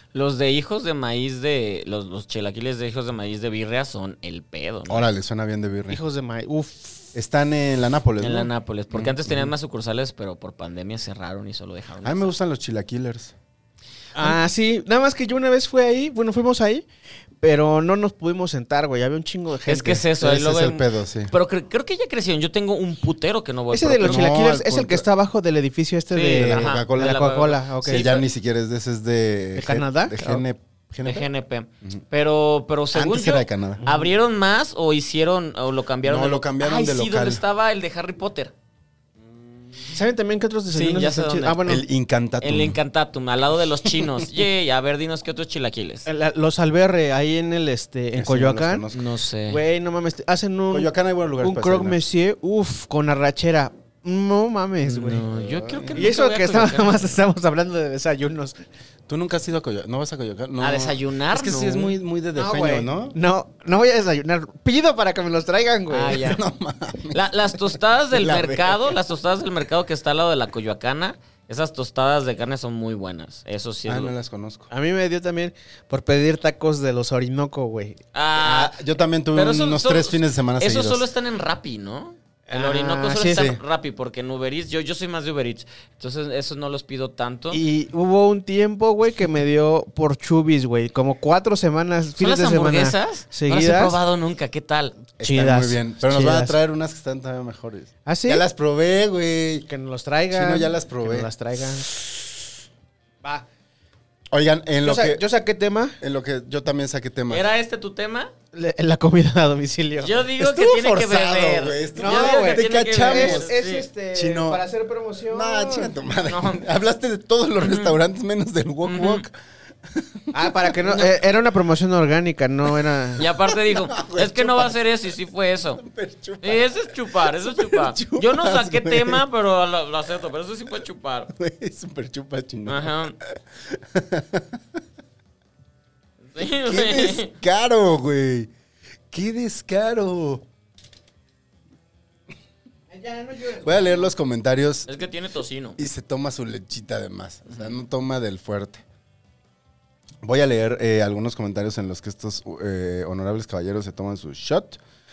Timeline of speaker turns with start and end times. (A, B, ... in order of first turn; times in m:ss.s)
0:00.1-0:05.1 A
0:04.9-0:06.0 B
0:05.9-0:07.1 C
0:07.2-0:09.5 B
0:08.2-0:12.3 A
0:12.0-0:13.4 B
0:14.2-0:16.8 C
0:17.4-0:20.1 C
0:19.7-0:24.3 A
0:20.2-0:21.3 B
0:23.7-0:28.1 C
0:24.0-0:25.1 B
0:26.1-0:28.3 A
0:26.4-0:27.3 B
0:27.8-0:31.3 B
0:29.6-0:30.4 C
0:31.0-0:38.5 A
0:32.9-0:33.8 B
0:36.0-0:37.4 B
0:39.9-0:41.8 C
0:40.7-0:41.6 A
0:41.6-0:42.8 B
0:42.4-0:46.1 A
0:43.9-0:44.2 B
0:46.1-0:48.8 C
0:48.1-0:49.1 B
0:48.9-0:49.6 A
0:49.5-0:50.9 C
0:50.7-0:52.0 B
0:51.4-0:55.2 C
0:54.8-0:57.2 A
0:55.4-0:56.0 B
0:56.0-0:58.6 C
0:59.1-1:03.2 B
1:00.6-1:02.0 A
1:02.4-1:06.4 C
1:05.9-1:06.4 A
1:06.1-1:07.3 B
1:07.1-1:14.1 A
1:08.1-1:09.0 B
1:13.9-1:14.7 B
1:14.7-1:18.0 C
1:18.1-1:18.8 A
1:18.4-1:21.0 B
1:19.3-1:27.6 A
1:22.5-1:23.5 C
1:23.3-1:23.6 B
1:27.5-1:34.0 C
1:32.2-1:35.0 A
1:35.2-1:39.7 B
1:35.2-1:36.6 C
1:38.1-1:38.4 C
1:39.7-1:42.0 C
1:40.3-1:41.3 B
1:44.3-1:45.2 B
1:44.8-1:46.0 C
1:46.0-1:47.5 B
1:47.3-1:48.3 A
1:48.5-1:50.2 C
1:50.0-1:53.9 A
1:50.4-1:53.5 B
1:52.0-1:55.9 C
1:54.1-1:54.6 B
1:55.3-1:59.4 B
1:56.3-1:56.7 A
1:57.6-1:58.0 A
1:58.8-1:59.2 A
1:59.9-2:01.0 B
2:00.3-2:03.2 C
2:03.2-2:05.8 A
2:03.2-2:04.8 B
2:05.8-2:09.2 B
2:06.4-2:11.3 A
2:11.3-2:14.6 B
2:12.7-2:13.2 A
2:16.3-2:17.3 A
2:16.4-2:18.5 B
2:19.1-2:20.4 B
2:22.9-2:24.1 C
2:23.6-2:24.9 B
2:24.9-2:25.8 A
2:25.8-2:28.8 B
2:30.2-2:34.8 B